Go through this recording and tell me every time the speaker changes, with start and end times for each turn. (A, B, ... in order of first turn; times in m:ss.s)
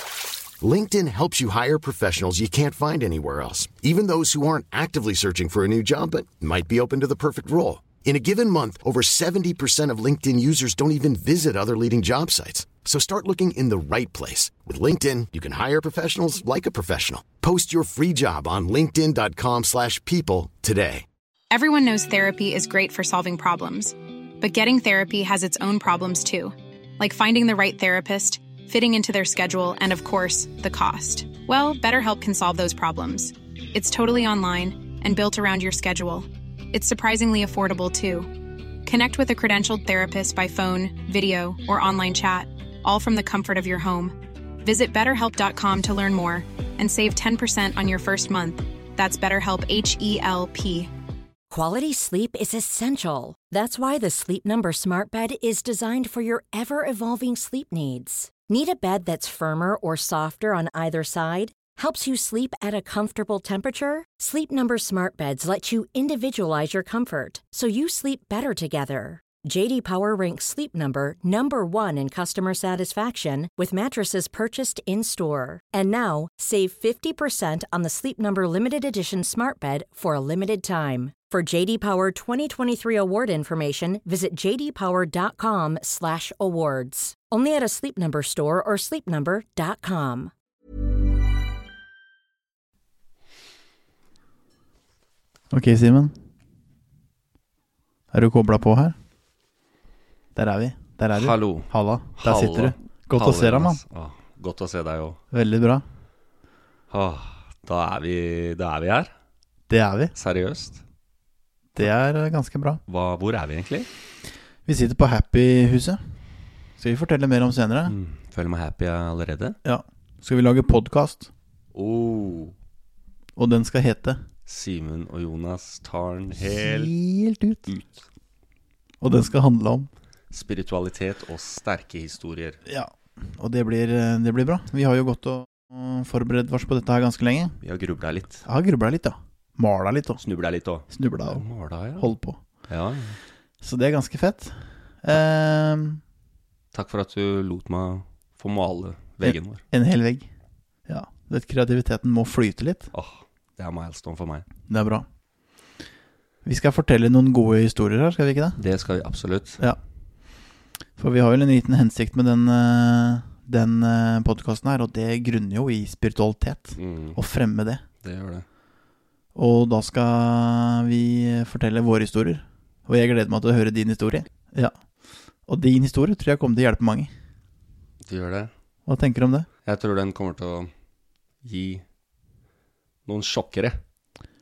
0:00.6-0:21.0 A
0:21.5-0:38.3 B
0:38.8-0:50.9 B
0:51.5-1:30.3 C
1:35.5-1:36.1 D
1:38.1-1:39.0 D
1:40.3-1:43.8 D
1:41.1-1:45.2 E
1:45.3-1:45.8 D
1:46.9-1:49.1 E
1:49.7-1:50.1 D
1:50.2-1:50.8 E
1:51.7-1:52.8 D
1:52.9-1:53.9 E
1:54.6-1:56.0 D
1:56.8-1:57.9 D
1:57.9-1:59.6 E
1:59.6-2:01.3 D
2:01.7-2:02.5 E
2:03.4-2:04.2 D
2:04.5-2:06.9 E
2:06.4-2:07.8 D
2:09.0-2:09.9 D
2:10.3-2:12.6 E
2:12.6-2:17.6 D
2:17.6-2:18.4 E
2:18.4-2:20.2 D
2:20.2-2:22.1 E
2:20.9-2:21.4 D
2:22.0-2:22.4 D
2:22.7-2:23.2 E
2:23.6-2:26.0 D
2:26.7-2:29.6 E
2:29.2-2:30.3 D
2:30.9-2:32.9 D
2:32.9-2:34.4 E
2:34.7-2:35.0 D
2:36.4-2:38.6 D
2:38.6-2:39.6 E
2:41.0-2:47.8 D
2:46.8-2:47.2 E
2:48.0-2:48.4 E
2:49.3-2:54.7 D
2:55.5-2:57.1 D
2:58.0-2:58.5 E
2:58.8-2:59.5 D
2:59.6-3:00.7 E
3:01.4-3:01.8 E
3:03.0-3:03.8 E